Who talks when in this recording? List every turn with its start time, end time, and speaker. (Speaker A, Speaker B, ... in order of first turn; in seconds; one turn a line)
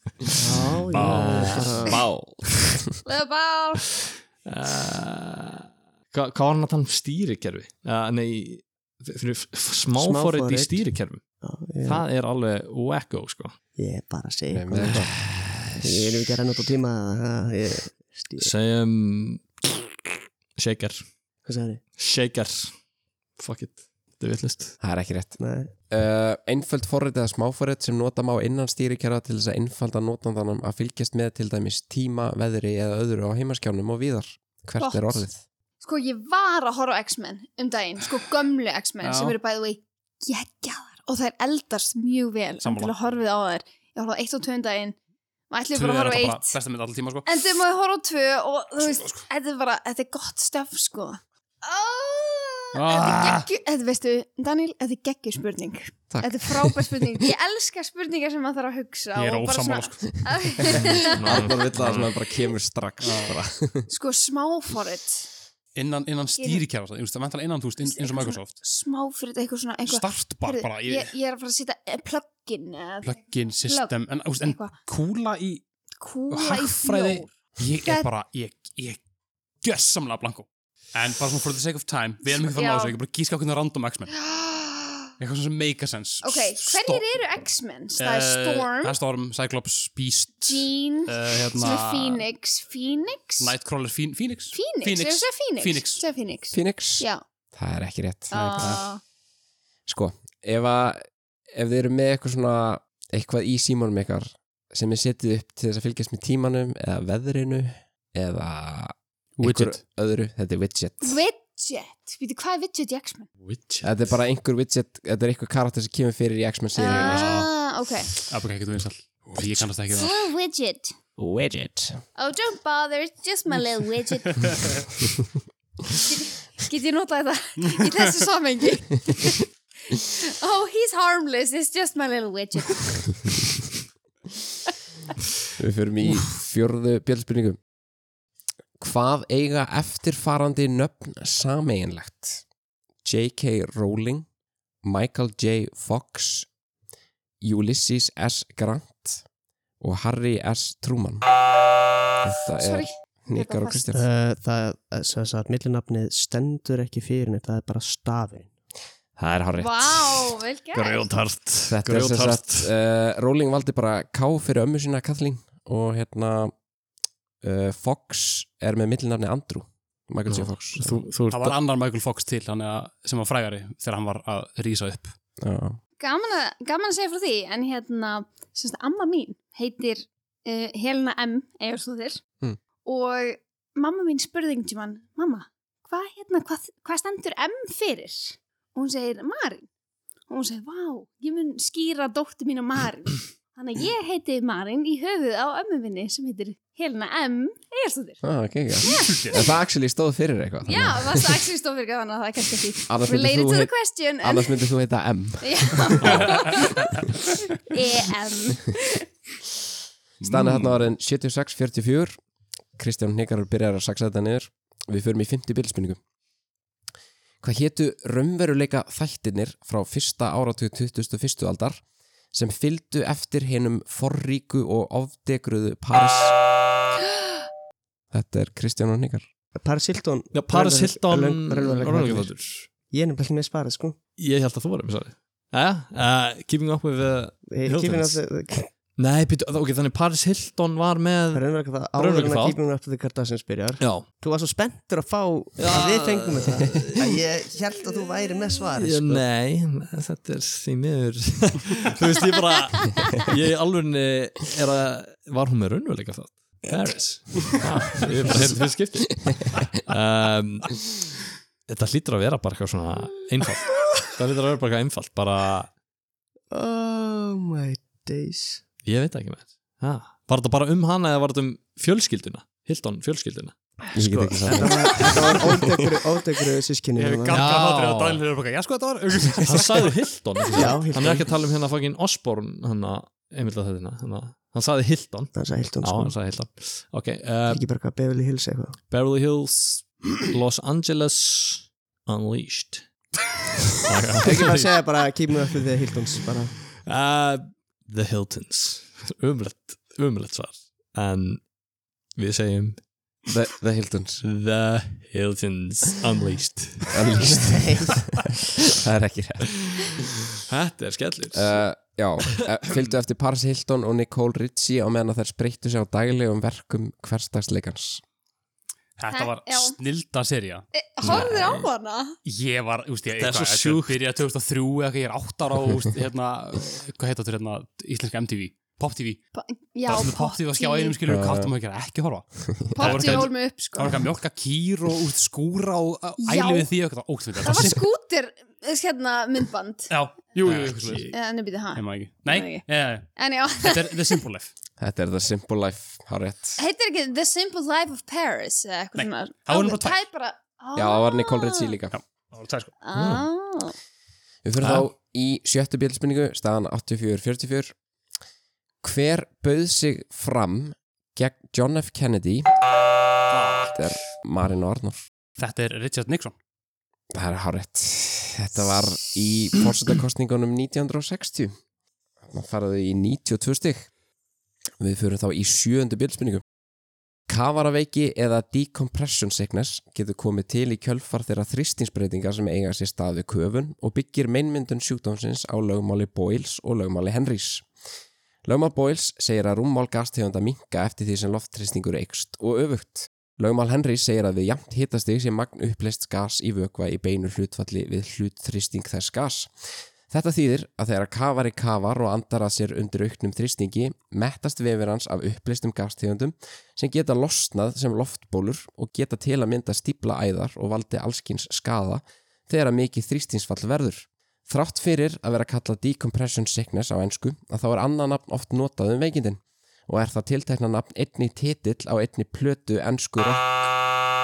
Speaker A: 0.2-2.8
Speaker B: 0.3-2.0
Speaker C: 1.9-2.4
Speaker D: 3.0-3.8
Speaker A: 4.0-11.2
Speaker B: 9.9-10.8
Speaker B: 11.4-12.0
Speaker A: 11.8-13.5
Speaker B: 13.8-15.1
Speaker C: 14.5-15.2
Speaker A: 14.8-15.9
Speaker B: 15.8-18.5
Speaker A: 18.4-21.1
Speaker B: 21.4-21.8
Speaker A: 22.0-22.7
Speaker A: 23.4-24.8
Speaker C: 24.8-25.4
Speaker B: 25.4-25.7
Speaker C: 25.9-35.4
Speaker D: 34.8-35.2
Speaker D: 35.8-45.0
Speaker E: 39.0-39.4
Speaker E: 42.6-42.9
Speaker D: 45.5-46.5
Speaker E: 45.7-47.3
Speaker D: 47.3-61.5
Speaker E: 48.8-49.3
Speaker E: 52.7-53.5
Speaker C: 56.1-57.2
Speaker E: 59.1-60.3
Speaker C: 60.7-63.9
Speaker A: 60.9-62.1
Speaker E: 63.0-63.4
Speaker D: 63.9-65.3
Speaker E: 65.7-68.5
Speaker D: 66.4-66.6
Speaker D: 67.8-74.7
Speaker E: 69.8-71.1
Speaker E: 73.0-75.6
Speaker D: 76.0-78.1
Speaker E: 76.3-79.0
Speaker E: 79.6-84.1
Speaker D: 82.3-83.0
Speaker D: 84.1-85.1
Speaker E: 85.2-87.0
Speaker D: 86.2-89.0
Speaker E: 88.0-92.2
Speaker D: 90.5-93.5
Speaker E: 93.4-96.0
Speaker D: 94.5-97.2
Speaker C: 96.5-98.8
Speaker D: 98.3-99.0
Speaker E: 98.3-98.8
Speaker C: 99.9-111.2
Speaker E: 109.4-109.8
Speaker D: 111.0-113.3
Speaker A: 113.4-113.9
Speaker C: 113.8-117.3
Speaker D: 116.8-118.1
Speaker E: 116.8-117.5
Speaker E: 118.3-120.2
Speaker D: 119.9-120.9
Speaker C: 121.2-122.0
Speaker D: 122.2-124.4
Speaker E: 124.4-124.7
Speaker D: 126.0-132.9
Speaker C: 135.6-137.6
Speaker C: 138.8-142.4
Speaker C: 143.0-144.2
Speaker C: 144.8-146.5
Speaker C: 147.4-149.2
Speaker C: 149.8-151.2
Speaker C: 152.2-154.0
Speaker D: 152.6-153.8
Speaker B: 153.9-158.5
Speaker C: 159.2-160.3
Speaker D: 159.6-161.1
Speaker A: 160.7-162.7
Speaker C: 161.7-166.5
Speaker C: 167.4-171.0
Speaker A: 170.3-171.6
Speaker E: 171.3-175.1
Speaker C: 175.4-175.8
Speaker D: 176.0-182.2
Speaker D: 182.8-189.7
Speaker D: 190.3-198.2
Speaker C: 198.2-201.4
Speaker D: 198.8-199.4
Speaker E: 199.1-199.5
Speaker D: 200.6-204.6
Speaker C: 202.9-203.7
Speaker C: 204.2-206.4
Speaker D: 205.4-206.9
Speaker A: 206.0-206.3
Speaker D: 207.6-209.1
Speaker E: 210.2-210.8
Speaker C: 210.2-212.2
Speaker C: 212.8-216.0
Speaker C: 217.4-221.8
Speaker C: 222.3-226.4
Speaker C: 228.1-229.2
Speaker B: 229.6-234.0
Speaker A: 230.3-232.7
Speaker A: 234.2-238.2
Speaker B: 237.5-238.7
Speaker A: 239.0-242.6
Speaker B: 241.3-249.2
Speaker A: 243.8-244.1
Speaker A: 245.6-247.2
Speaker A: 248.7-260.9
Speaker B: 257.3-258.1
Speaker A: 261.7-265.7
Speaker B: 266.5-268.6
Speaker A: 268.8-275.6
Speaker C: 273.9-275.1
Speaker B: 274.4-277.5
Speaker E: 276.9-279.9
Speaker A: 277.3-278.2
Speaker A: 279.4-287.6
Speaker B: 280.5-281.3
Speaker B: 285.3-286.1
Speaker B: 287.5-288.8
Speaker A: 288.9-292.8
Speaker A: 293.8-294.8
Speaker B: 294.2-296.6
Speaker A: 296.6-301.4
Speaker A: 302.1-302.8
Speaker C: 303.3-304.2
Speaker A: 304.2-307.4
Speaker C: 306.9-310.1
Speaker A: 310.5-311.6
Speaker C: 311.3-318.0
Speaker A: 312.3-312.8
Speaker E: 319.0-320.7
Speaker D: 319.1-319.8
Speaker D: 320.7-322.2
Speaker A: 321.0-321.6
Speaker E: 322.2-329.2
Speaker A: 323.1-324.0
Speaker D: 329.3-330.9
Speaker E: 329.9-337.8
Speaker C: 331.1-331.5
Speaker D: 332.7-334.0
Speaker A: 332.9-333.3
Speaker D: 336.2-336.7
Speaker D: 337.4-339.9
Speaker E: 339.9-341.1
Speaker A: 340.4-341.1
Speaker D: 341.1-344.1
Speaker E: 341.7-344.5
Speaker C: 344.8-346.6
Speaker D: 346.6-351.8
Speaker E: 348.9-350.0
Speaker C: 350.7-352.0
Speaker E: 351.9-352.7
Speaker D: 352.8-353.7
Speaker A: 352.9-353.2
Speaker C: 354.4-357.7
Speaker C: 358.8-362.5
Speaker A: 363.3-363.9
Speaker C: 363.7-365.0
Speaker E: 365.4-366.4
Speaker C: 367.1-371.5
Speaker C: 372.3-373.9
Speaker C: 374.8-376.4
Speaker C: 377.3-387.6
Speaker C: 388.4-423.6